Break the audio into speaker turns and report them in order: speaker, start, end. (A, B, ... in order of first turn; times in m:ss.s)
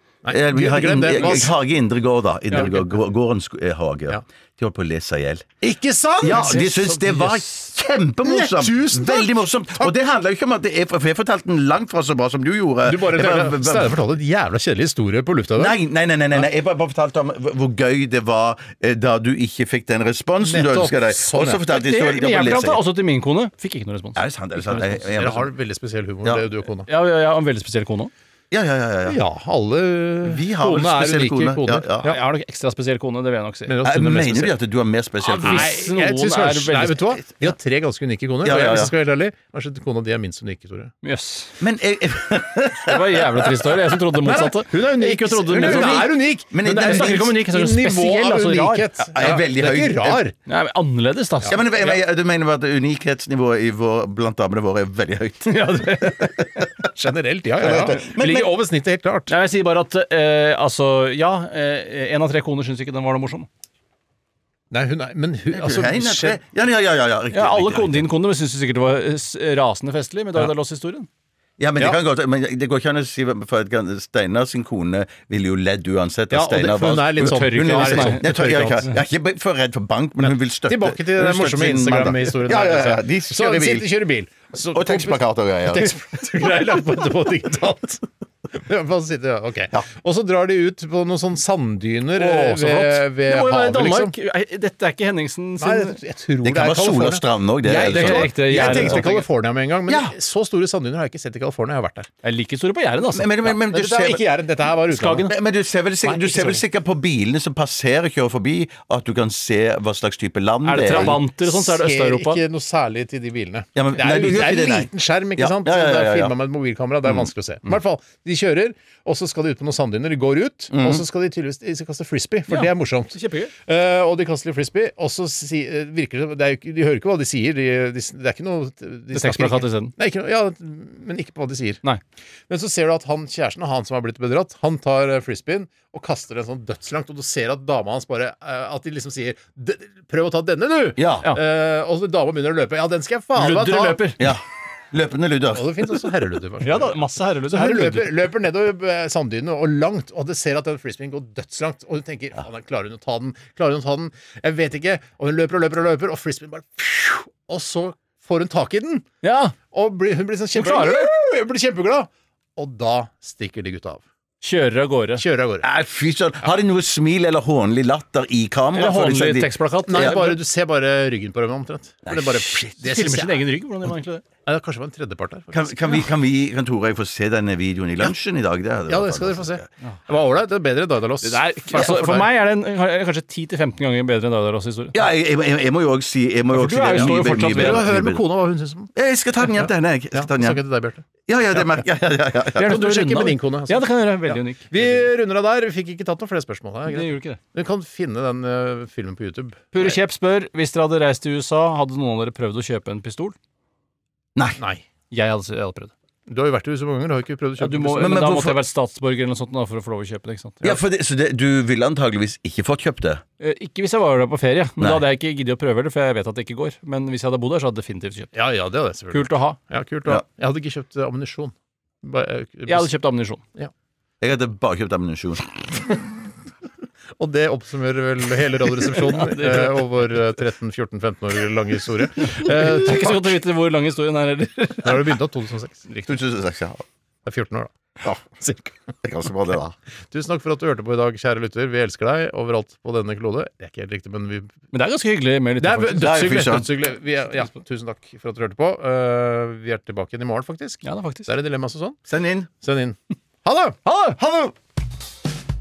0:00.2-0:01.5 A
0:00.3-0:05.6 B
0:02.5-0:02.8 A
0:05.6-0:06.6 A
0:06.2-0:14.0 B
0:06.3-0:07.5 C
0:08.2-0:09.9 A
0:12.8-0:15.8 A
0:15.6-0:22.8 B
0:20.4-0:21.7 A
0:21.6-0:24.2 C
0:24.2-0:25.5 B
0:24.6-0:26.9 A
0:26.9-0:28.1 C
0:28.5-0:29.2 B
0:29.1-0:32.2 A
0:30.2-0:32.1 B
0:32.0-0:33.8 C
0:33.7-0:34.6 A
0:33.8-0:35.7 B
0:35.2-0:37.2 C
0:35.3-0:40.9 A
0:38.4-0:38.9 B
0:41.0-0:41.5 C
0:41.6-0:43.4 B
0:42.8-0:46.1 C
0:44.2-0:50.4 A
0:45.6-0:47.3 B
0:46.6-0:48.9 C
0:49.1-0:50.2 B
0:50.5-0:52.0 C
0:51.5-0:56.5 B
0:55.5-0:56.3 C
0:56.9-0:59.3 A
0:57.6-0:58.6 B
0:57.6-0:58.1 C
0:59.3-1:03.5 C
1:04.7-1:06.4 A
1:05.5-1:08.1 B
1:07.3-1:11.1 C
1:11.6-1:23.9 B
1:16.3-1:18.9 A
1:17.2-1:19.0 C
1:20.2-1:34.2 A
1:24.7-1:26.1 B
1:32.2-1:36.0 C
1:35.6-1:42.1 A
1:36.4-1:39.1 B
1:37.7-1:39.2 C
1:39.9-1:40.1 B
1:42.2-1:43.5 C
1:43.1-1:44.2 B
1:43.7-1:45.3 A
1:44.9-1:45.3 C
1:45.3-1:51.2 B
1:46.0-1:46.6 A
1:50.6-1:52.4 C
1:50.9-2:11.8 A
1:53.8-1:56.3 B
2:00.7-2:01.0 B
2:02.5-2:03.5 C
2:09.1-2:09.9 C
2:12.5-2:24.1 A
2:21.0-2:21.3 B
2:23.4-2:24.2 C
2:24.9-2:26.1 B
2:25.5-2:39.1 A
2:26.6-2:28.2 C
2:39.2-2:39.6 C
2:39.7-2:44.0 A
2:40.6-2:41.1 C
2:44.4-2:45.2 C
2:45.2-2:45.7 A
2:45.6-2:50.3 B
2:48.7-2:50.3 C
2:49.9-2:53.4 A
2:52.1-2:52.7 B
2:52.8-2:54.2 C
2:54.5-2:56.0 A
2:55.5-2:59.6 B
2:58.9-3:02.3 A
3:01.2-3:05.0 C
3:04.9-3:08.2 B
3:06.5-3:07.9 C
3:06.9-3:08.9 A
3:09.0-3:10.6 B
3:09.4-3:11.0 A
3:11.3-3:12.8 B
3:12.6-3:15.1 C
3:12.6-3:19.9 A
3:16.9-3:17.4 C
3:19.7-3:23.4 C
3:24.6-3:24.9 A
3:25.1-3:25.9 C
3:26.3-3:28.2 A
3:27.6-3:30.8 C
3:28.0-3:28.6 B
3:30.6-3:33.2 B
3:33.4-3:38.3 C
3:34.8-3:35.0 B
3:38.4-3:42.9 A
3:39.1-3:39.6 C
3:42.7-3:43.4 C
3:44.2-3:45.7 B
3:47.2-3:53.2 A
3:49.2-3:49.8 C
3:52.4-3:55.1 C
3:54.8-3:55.8 A
3:56.0-3:56.8 B
3:57.2-3:57.7 A
3:58.0-3:59.8 B
4:00.1-4:04.5 A
4:04.7-4:06.6 C
4:05.6-4:12.0 A
4:06.0-4:06.7 B
4:10.8-4:11.3 C
4:12.1-4:12.5 B
4:12.6-4:13.8 A
4:13.9-4:14.2 C
4:14.2-4:14.5 B